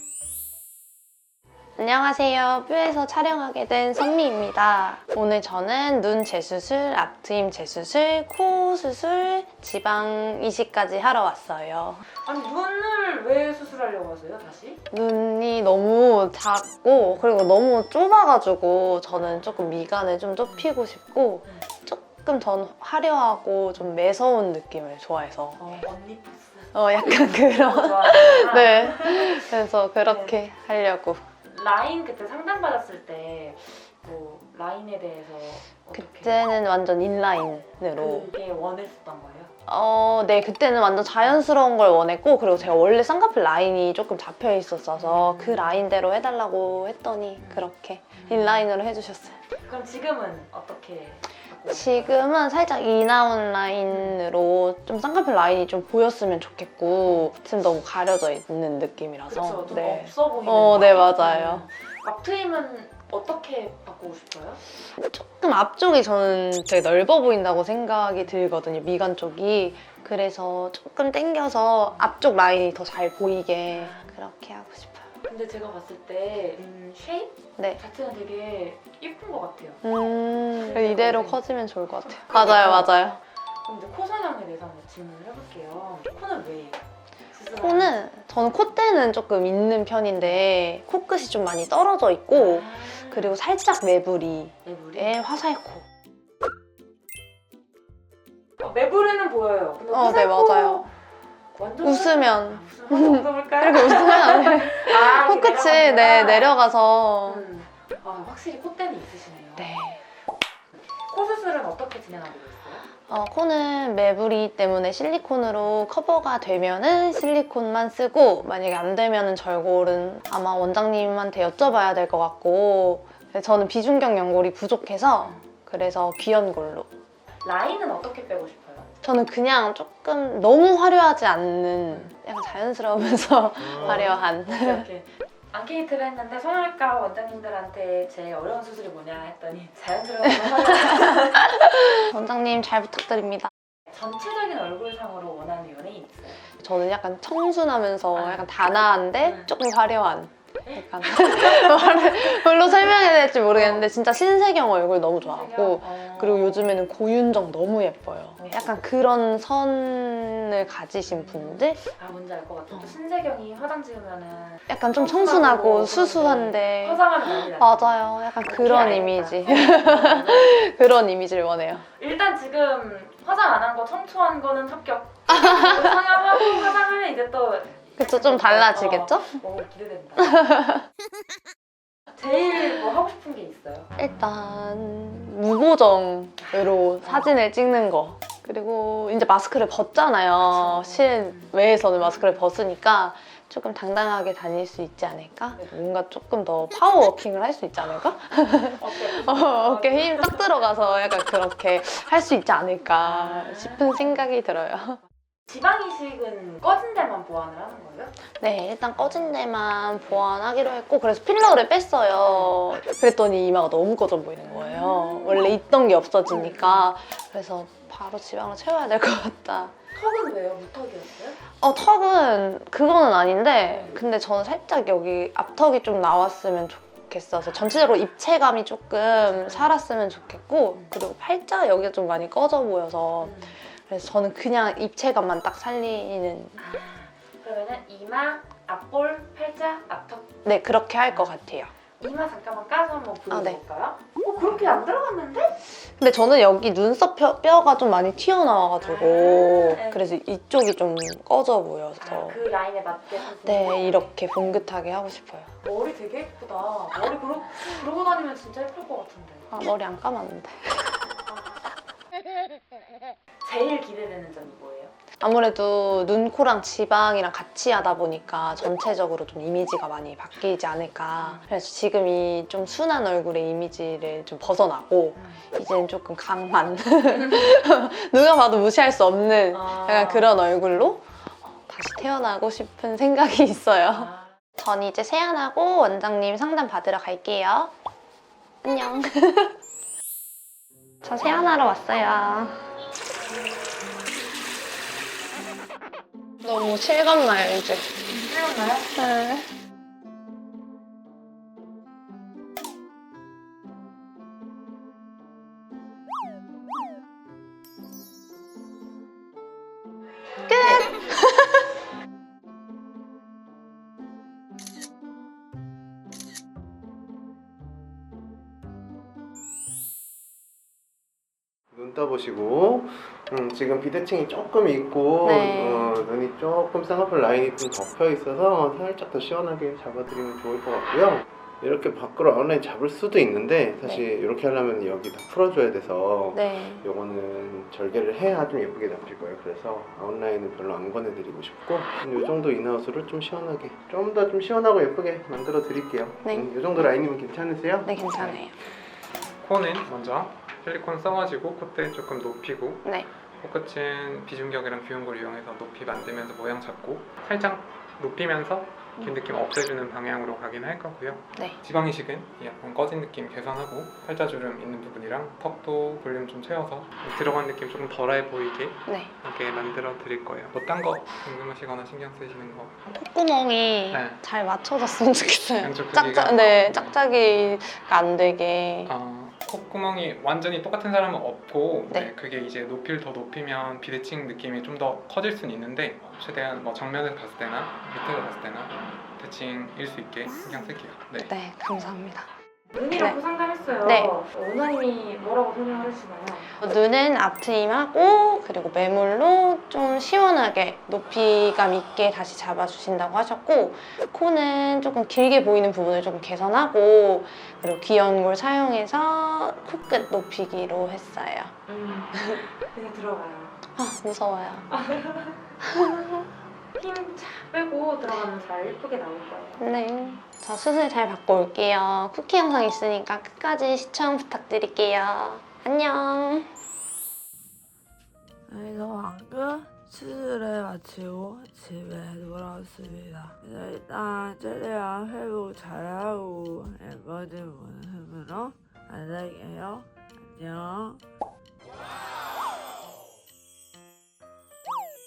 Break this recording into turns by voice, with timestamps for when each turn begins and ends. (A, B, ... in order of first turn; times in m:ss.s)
0:01.8-0:12.1 A
0:12.2-0:14.8 B
0:14.9-0:25.7 A
0:25.6-0:30.4 B
0:26.7-0:31.2 A
0:31.4-0:36.5 B
0:36.0-0:38.3 A
0:38.0-0:39.5 B
0:39.7-0:49.4 A
0:45.0-0:45.8 B
0:47.4-0:48.7 B
0:49.6-0:52.3 B
0:51.7-1:01.7 A
0:53.9-0:54.2 B
0:57.1-0:57.3 B
0:59.3-1:04.6 B
1:05.0-1:15.1 A
1:13.7-1:14.1 B
1:15.2-1:19.8 B
1:19.8-1:23.2 A
1:20.5-1:21.4 B
1:22.1-1:22.9 B
1:23.6-1:28.0 B
1:27.5-1:35.8 A
1:32.3-1:33.4 B
1:34.6-1:35.2 B
1:38.6-1:40.9 B
1:39.9-1:40.9 A
1:41.5-1:46.6 B
1:41.8-1:47.4 A
1:47.2-1:49.7 B
1:49.6-1:50.0 A
1:51.0-1:52.9 B
1:53.1-2:06.9 A
2:07.4-2:08.9 B
2:09.0-2:14.9 A
2:13.7-2:14.0 C
2:13.7-2:21.4 B
2:21.0-2:23.5 A
2:23.9-2:26.4 B
2:26.6-2:41.8 A
2:28.2-2:28.5 B
2:29.2-2:29.5 B
2:30.7-2:33.9 B
2:35.2-2:36.8 B
2:38.4-2:38.8 B
2:41.1-2:50.7 B
2:44.7-2:47.0 A
2:47.5-2:51.8 A
2:51.9-3:00.6 B
2:55.3-2:56.0 A
2:58.0-2:59.4 A
3:00.3-3:00.8 A
3:02.1-3:03.9 B
3:04.0-3:25.0 A
3:06.4-3:07.4 B
3:10.4-3:12.4 B
3:18.8-3:20.8 B
3:23.0-3:24.1 B
3:25.5-3:28.1 B
3:28.4-3:39.8 A
3:32.3-3:32.6 B
3:34.5-3:35.5 B
3:36.3-3:36.9 B
3:39.9-3:41.4 B
3:41.5-3:56.6 A
3:43.7-3:44.0 B
3:49.3-3:49.7 B
3:53.2-3:53.6 B
3:56.6-4:00.4 B
4:00.4-4:01.7 A
4:02.0-4:05.6 B
4:03.3-4:03.6 A
4:05.8-4:12.4 A
4:08.8-4:10.0 B
4:12.0-4:14.6 B
4:13.4-4:15.5 A
4:15.6-4:19.5 B
4:19.5-4:21.1 A
4:21.3-4:21.6 B
4:23.4-4:24.9 B
4:25.2-4:41.1 A
4:31.2-4:31.5 B
4:35.2-4:35.4 B
4:39.5-4:40.4 B
4:41.6-4:47.7 A
4:43.9-4:44.3 B
4:48.6-4:49.6 A
4:51.0-4:52.6 A
4:56.4-4:58.1 A
4:58.1-4:58.9 B
4:58.9-4:59.5 A
5:10.5-5:11.6 A
5:21.7-5:48.4 C
5:25.2-5:26.0 A
5:36.3-5:36.8 A
5:46.2-5:46.5 A
5:47.8-5:48.5 A
5:49.4-6:12.8 D
6:08.9-6:09.1 A
6:12.9-6:18.9 A
6:13.9-6:14.2 D
6:15.6-6:17.0 D
6:18.9-6:31.3 D
6:31.2-6:32.3 A
6:32.7-6:36.5 B
6:32.9-6:33.2 A
6:33.8-6:34.2 A
6:36.6-6:51.6 A
6:51.7-6:53.5 B
6:53.8-6:54.7 A
6:54.7-6:55.4 B
6:55.7-6:56.2 A
6:56.8-6:59.6 B
6:59.6-7:06.5 A
7:08.5-7:21.0 E